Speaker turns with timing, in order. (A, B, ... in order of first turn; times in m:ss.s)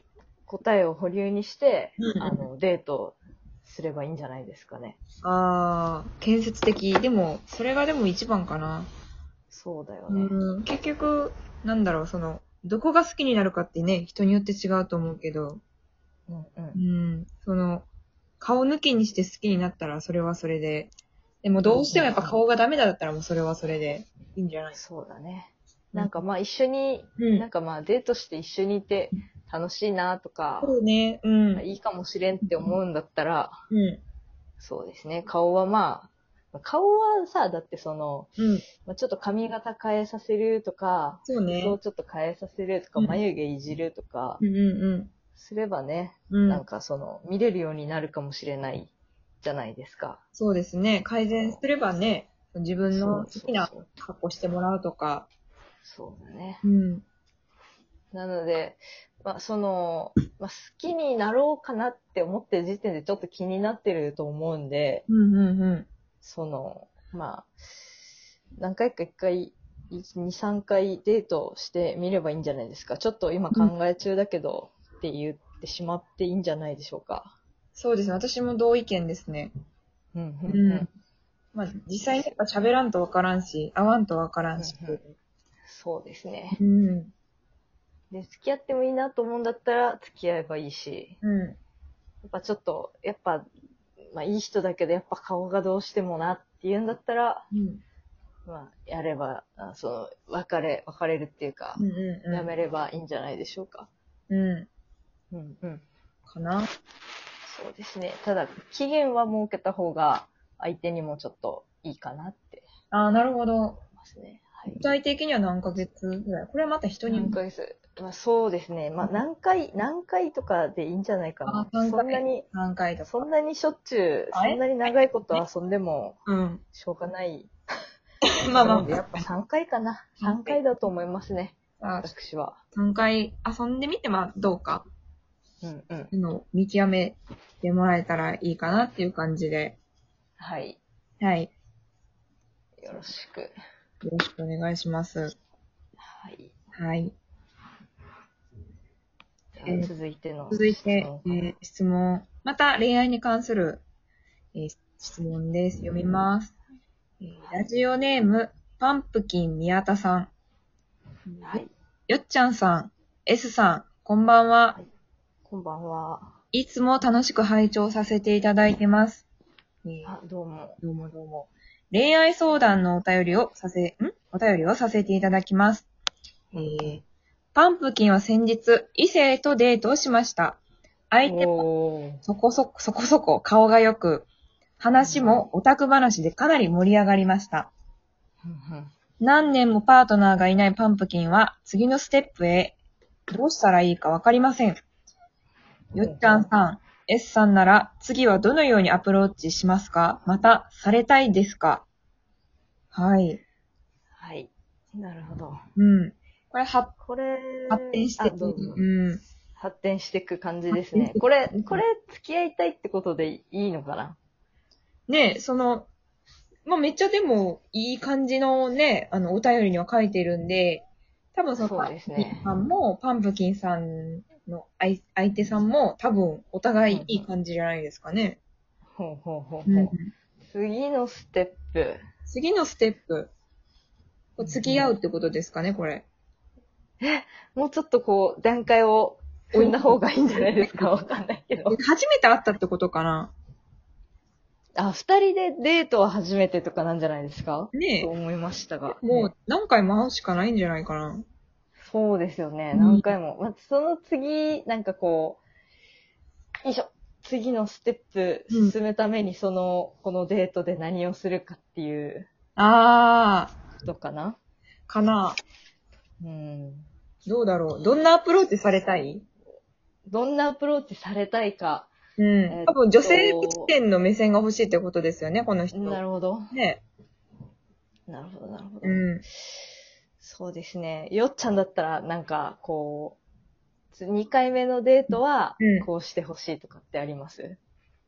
0:00.5-0:05.0 A
0:02.0-0:02.4 B
0:05.2-0:08.9 B
0:09.5-0:10.3 A
0:10.1-0:15.6 B
0:16.3-0:16.8 A
0:16.8-0:17.9 B
0:18.4-0:20.9 B
0:21.4-0:24.8 B
0:21.6-0:22.4 A
0:24.7-0:30.7 A
0:27.2-0:27.5 B
0:30.6-0:31.6 B
0:31.5-0:33.6 A
0:33.7-0:34.0 B
0:34.6-0:44.4 A
0:38.4-0:38.6 B
0:41.2-0:41.8 B
0:44.4-0:45.1 B
0:45.4-0:50.2 A
0:46.3-0:46.6 B
0:50.3-0:55.3 B
0:52.9-0:53.9 A
0:55.8-0:56.6 A
0:56.6-0:57.0 B
0:58.1-1:05.0 A
1:05.1-1:05.9 B
1:06.2-1:07.9 A
1:08.6-1:17.3 A
1:17.7-1:19.5 B
1:20.1-1:20.9 A
1:20.5-1:20.9 B
1:21.5-1:25.0 B
1:24.6-1:26.6 A
1:26.6-1:27.1 B
1:28.1-1:31.2 A
1:31.2-1:31.6 B
1:32.2-1:33.5 A
1:34.1-1:37.5 A
1:37.5-1:37.8 B
1:38.5-1:43.9 A
1:41.8-1:42.5 B
1:44.3-1:44.7 B
1:45.3-1:45.8 A
1:46.3-1:46.7 B
1:47.5-1:52.7 A
1:52.9-1:53.8 B
1:54.0-1:54.8 A
1:54.7-1:57.4 B
1:57.1-2:02.4 A
2:01.5-2:03.2 B
2:03.0-2:06.2 A
2:04.3-2:05.4 B
2:06.2-2:06.6 B
2:06.7-2:07.5 A
2:08.4-2:09.2 B
2:08.5-2:12.6 A
2:10.2-2:10.6 B
2:11.8-2:12.1 B
2:12.7-2:14.8 B
2:15.6-2:16.1 A
2:16.1-2:19.8 B
2:20.4-2:20.8 A
2:21.2-2:21.5 B
2:22.8-2:23.5 A
2:24.0-2:25.3 B
2:26.0-2:26.5 A
2:26.7-2:27.2 B
2:29.5-2:31.4 A
2:29.7-2:29.9 B
2:30.5-2:33.8 B
2:34.5-2:36.5 B
2:37.2-2:40.3 B
2:41.3-2:44.8 B
2:41.4-2:41.7 A
2:45.5-2:46.3 A
2:46.5-2:49.2 B
2:49.8-2:50.2 B
2:50.0-2:50.8 A
2:50.8-2:55.9 B
2:56.5-2:57.0 A
2:56.6-2:57.0 B
2:57.5-3:00.6 B
3:01.1-3:01.6 B
3:01.2-3:02.2 A
3:02.2-3:04.3 B
3:04.8-3:07.7 B
3:05.0-3:05.5 A
3:08.4-3:08.9 A
3:09.2-3:12.7 B
3:13.3-3:14.8 B
3:15.9-3:21.8 B
3:16.0-3:16.5 A
3:22.9-3:23.4 B
3:24.1-3:25.6 A
3:25.8-3:26.9 B
3:27.0-3:28.8 A
3:27.7-3:29.2 B
3:29.6-3:34.2 A
3:30.7-3:31.8 B
3:35.1-3:35.9 B
3:36.6-3:48.4 B
3:41.6-3:42.5 A
3:46.9-3:47.2 A
3:49.0-3:49.9 A
3:49.7-3:50.1 B
3:50.5-3:52.0 A
3:52.3-3:53.3 B
3:54.4-3:56.0 B
3:54.4-3:54.9 A
3:57.0-4:01.8 A
3:59.5-4:00.0 B
4:00.5-4:00.9 B
4:01.7-4:03.3 B
4:04.8-4:09.3 A
4:07.7-4:08.1 B
4:09.0-4:11.2 B
4:11.8-4:15.4 A
4:12.7-4:13.1 B
4:16.6-4:22.3 A
4:18.5-4:18.8 B
4:22.6-4:23.5 B
4:23.8-4:24.4 A
4:24.9-4:25.4 B
4:26.2-4:26.9 A
4:27.2-4:29.2 B
4:30.1-4:31.9 A
4:32.2-4:36.0 B
4:32.5-4:33.7 A
4:35.7-4:36.5 A
4:36.5-4:36.8 B
4:38.1-4:39.0 A
4:38.8-4:39.2 B
4:40.2-4:43.2 A
4:43.9-4:47.6 A
4:45.1-4:45.9 B